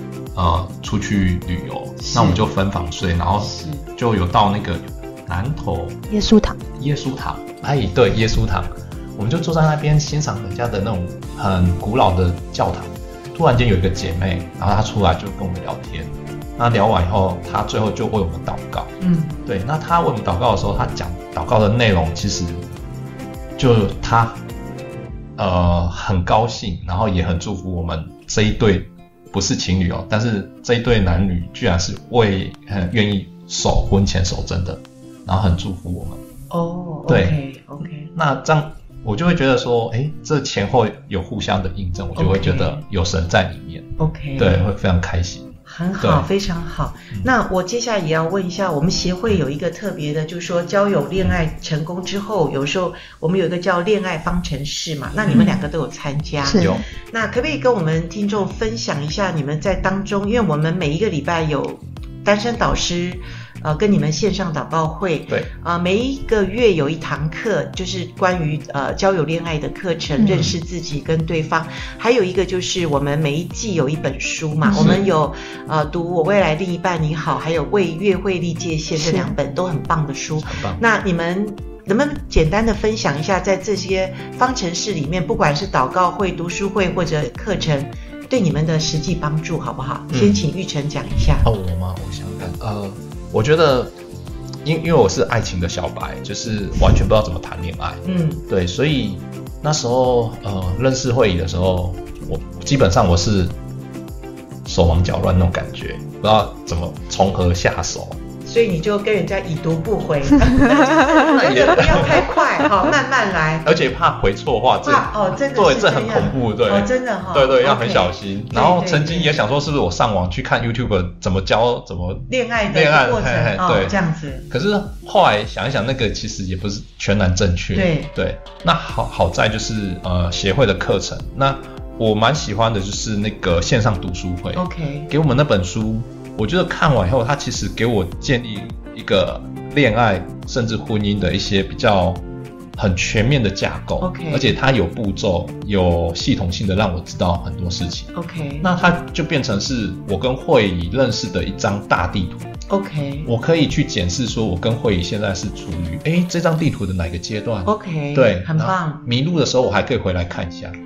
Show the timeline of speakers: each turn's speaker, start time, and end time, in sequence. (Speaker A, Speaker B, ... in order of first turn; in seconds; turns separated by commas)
Speaker A: 0.3-6.0, Speaker B: 2.0-2.4, Speaker B: 3.4-3.9, Speaker C: 6.1-6.6, Speaker A: 6.8-18.9, Speaker B: 19.0-19.4, Speaker A: 19.4-22.7, Speaker A: 23.6-24.4, Speaker A: 25.4-36.2, Speaker B: 36.5-38.1, Speaker A: 37.1-37.4, Speaker A: 38.1-46.3, Speaker B: 42.1-42.8, Speaker B: 44.0-44.7, Speaker B: 45.7-91.5, Speaker C: 55.3-55.6, Speaker C: 56.4-56.8, Speaker A: 56.6-56.8, Speaker C: 70.2-70.4, Speaker A: 70.3-70.5, Speaker C: 74.6-75.0, Speaker A: 74.8-75.0, Speaker C: 79.0-79.3, Speaker A: 80.4-80.8, Speaker A: 90.1-90.4, Speaker A: 91.4-93.9, Speaker A: 94.6-103.5, Speaker B: 98.0-98.4, Speaker A: 104.6-108.2, Speaker B: 108.4-113.7, Speaker A: 111.2-112.3, Speaker A: 113.6-124.0, Speaker B: 114.8-119.3, Speaker B: 122.3-124.5, Speaker A: 124.5-142.2, Speaker B: 127.7-128.1, Speaker B: 134.5-135.1, Speaker A: 142.8-152.5, Speaker B: 144.0-144.5, Speaker B: 148.1-148.7, Speaker B: 152.7-153.3, Speaker A: 153.2-160.8, Speaker B: 157.6-159.0